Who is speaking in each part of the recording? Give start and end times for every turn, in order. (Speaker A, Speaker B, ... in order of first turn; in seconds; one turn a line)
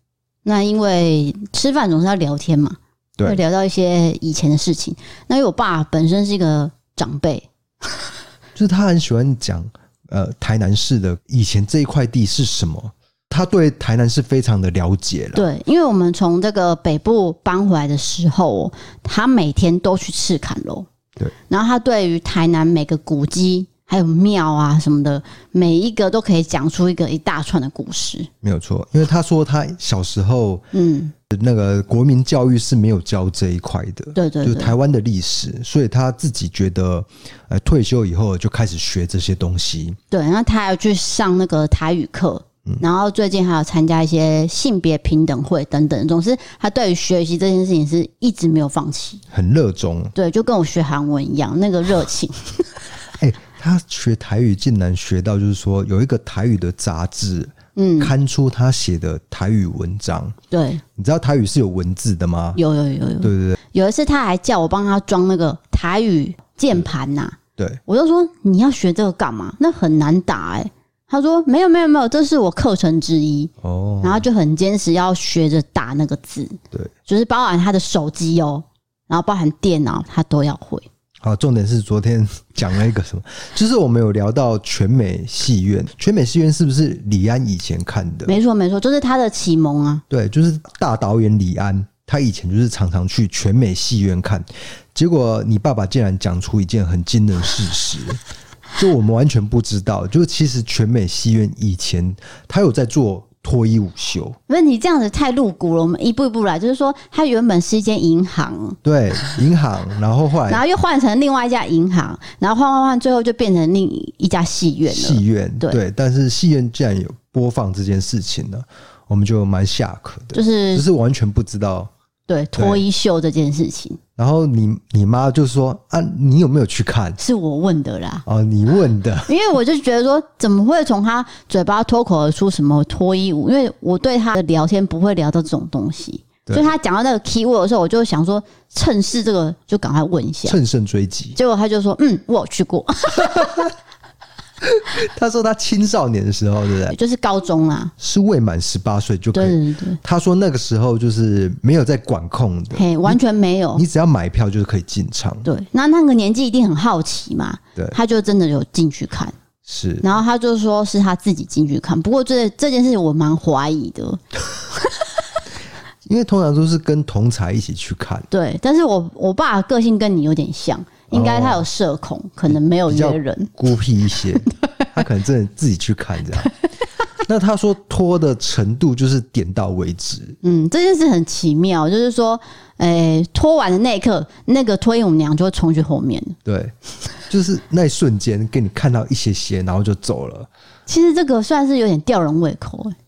Speaker A: 0.4-7.5
Speaker B: 8.5-15.4
Speaker A: 15.3-20.9
Speaker A: 21.5-28.3
Speaker B: 28.4-30.7
Speaker A: 30.7-31.1
Speaker B: 31.3-40.0
Speaker A: 34.1-34.7
Speaker A: 40.1-49.2
Speaker B: 49.3-50.1
Speaker A: 50.1-52.6
Speaker B: 53.2-60.4
Speaker A: 57.8-58.1
Speaker A: 60.5-60.8
Speaker B: 61.0-62.6
Speaker A: 62.5-80.8
Speaker B: 63.2-63.6
Speaker B: 73.6-74.2
Speaker B: 81.2-88.4
Speaker A: 88.2-90.0
Speaker B: 90.1-98.2
Speaker B: 98.8-104.4
Speaker A: 104.5-108.8
Speaker B: 108.8-110.6
Speaker A: 110.5-115.8
Speaker B: 114.9-121.9
Speaker A: 120.3-120.8
Speaker A: 122.3-124.0
Speaker B: 122.5-122.8
Speaker B: 124.2-127.2
Speaker A: 127.2-128.2
Speaker B: 128.2-129.3
Speaker A: 129.3-140.6
Speaker B: 140.4-141.4
Speaker A: 141.3-143.7
Speaker B: 143.2-143.7
Speaker B: 144.6-146.9
Speaker A: 146.9-147.9
Speaker B: 148.0-153.2
Speaker A: 149.3-150.0
Speaker A: 152.7-153.8
Speaker B: 153.7-155.5
Speaker A: 155.4-159.3
Speaker B: 159.7-160.1
Speaker A: 160.0-164.2
Speaker B: 166.0-168.3
Speaker A: 168.3-173.5
Speaker B: 171.1-171.6
Speaker B: 172.5-176.5
Speaker B: 177.2-180.4
Speaker A: 180.4-186.4
Speaker B: 186.4-186.7
Speaker B: 187.3-190.5
Speaker A: 190.9-192.9